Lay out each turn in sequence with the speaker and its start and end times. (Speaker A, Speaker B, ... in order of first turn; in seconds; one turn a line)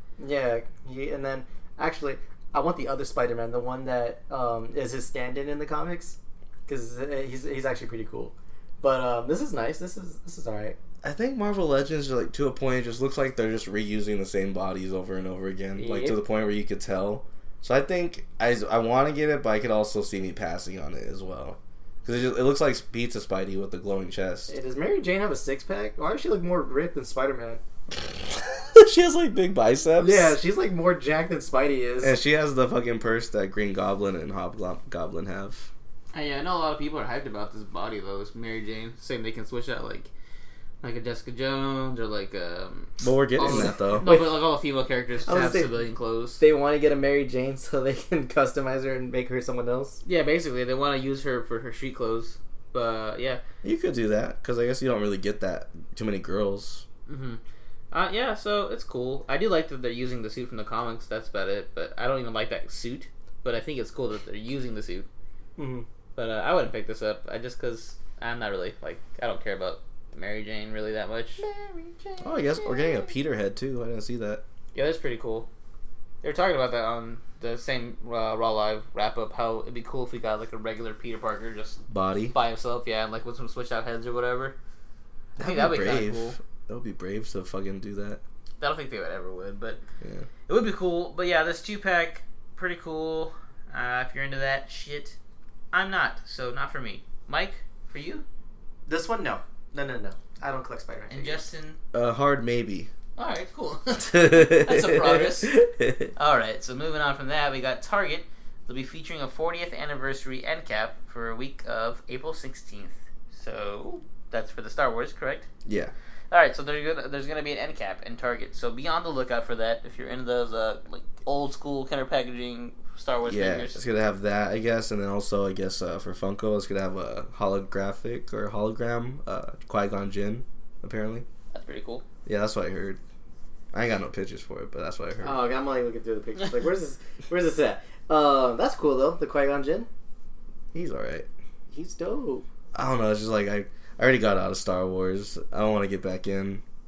Speaker A: 0.2-10.8
Speaker B: 11.0-24.5
Speaker A: 15.8-16.2
Speaker A: 24.5-27.6
Speaker B: 28.7-30.4
Speaker A: 30.0-32.2
Speaker B: 32.0-35.7
Speaker C: 36.1-40.1
Speaker C: 40.8-46.4
Speaker B: 43.0-44.1
Speaker A: 44.0-44.4
Speaker A: 45.2-45.8
Speaker A: 46.4-50.0
Speaker C: 50.0-53.4
Speaker B: 53.6-56.8
Speaker C: 57.1-57.4
Speaker C: 57.9-65.1
Speaker A: 65.6-65.8
Speaker C: 66.2-71.4
Speaker A: 71.4-73.1
Speaker B: 72.2-74.4
Speaker C: 74.7-75.5
Speaker C: 76.2-84.5
Speaker B: 81.9-82.3
Speaker C: 85.4-86.4
Speaker B: 85.4-88.2
Speaker C: 88.6-89.8
Speaker B: 90.0-90.3
Speaker C: 90.5-95.2
Speaker C: 95.7-98.2
Speaker A: 98.9-101.5
Speaker C: 101.1-101.8
Speaker B: 101.9-102.9
Speaker C: 103.2-105.6
Speaker B: 104.1-106.1
Speaker C: 106.2-115.5
Speaker B: 115.7-115.9
Speaker C: 116.3-123.8
Speaker B: 123.2-131.2
Speaker C: 131.5-132.0
Speaker B: 132.2-133.0
Speaker B: 133.7-135.4
Speaker A: 135.2-139.9
Speaker B: 140.7-141.3
Speaker A: 141.7-142.4
Speaker B: 142.7-146.6